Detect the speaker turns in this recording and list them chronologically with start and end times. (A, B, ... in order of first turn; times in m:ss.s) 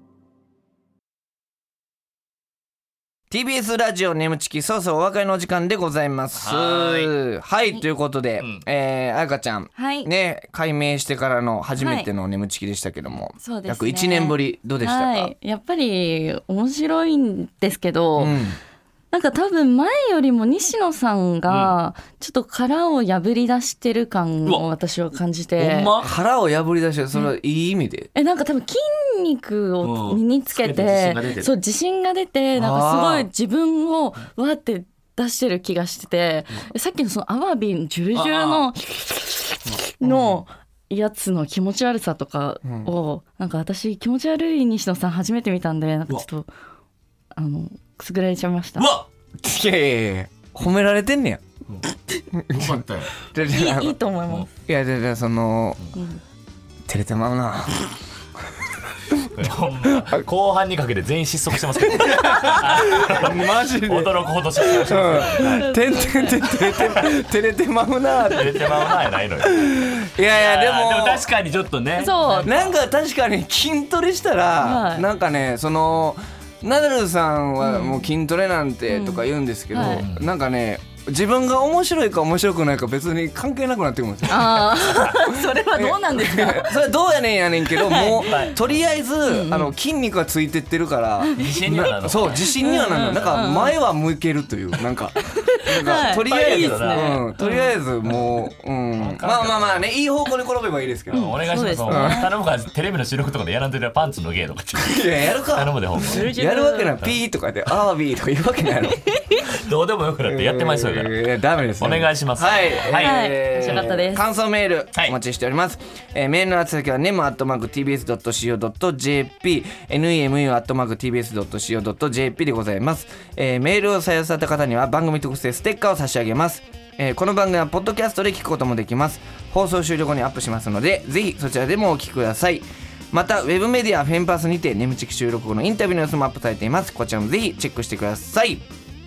0:03.3-0:15.3 A
0:06.4-0:07.1 B
0:08.4-0:08.6 B
0:09.8-0:10.1 C
0:11.8-0:12.1 C
0:13.4-0:18.4 C
0:18.2-0:18.6 A
0:19.1-0:25.9 C
0:21.5-0:21.8 B
0:25.6-0:26.2 B
0:26.0-0:28.1 A
0:28.1-0:46.5 C
0:29.8-0:31.5 B
0:32.6-0:33.3 A
0:38.1-0:38.7 B
0:40.0-0:40.4 A
0:42.6-0:42.9 A
0:47.4-0:48.9 C
0:48.8-0:49.1 B
0:49.4-0:51.4 A
0:52.3-0:54.0 A
0:52.5-0:53.1 B
0:53.4-0:54.5 C
0:54.6-0:55.8 A
0:55.9-0:56.2 C
0:56.9-0:57.9 A
0:59.2-1:05.7 B
0:59.9-1:00.2 A
1:01.9-1:11.2 A
1:05.4-1:06.6 C
1:08.2-1:09.6 B
1:10.4-1:12.8 B
1:12.0-1:12.5 C
1:12.4-1:41.3 A
1:14.6-1:15.1 C
1:17.6-1:18.1 C
1:18.9-1:20.0 C
1:19.8-1:20.3 B
1:24.3-1:26.8 C
1:27.8-1:28.5 C
1:28.2-1:28.7 B
1:29.3-1:29.8 C
1:31.4-1:33.4 B
1:32.6-1:33.8 C
1:35.2-1:37.8 C
1:35.8-1:37.3 B
1:38.0-1:39.9 B
1:41.1-1:46.3 B
1:41.1-1:42.3 C
1:41.9-1:42.2 A
1:44.8-1:49.1 A
1:46.0-1:47.0 C
1:49.1-1:49.5 C
1:49.4-1:53.9 B
1:50.3-2:18.6 A
1:53.0-1:54.2 C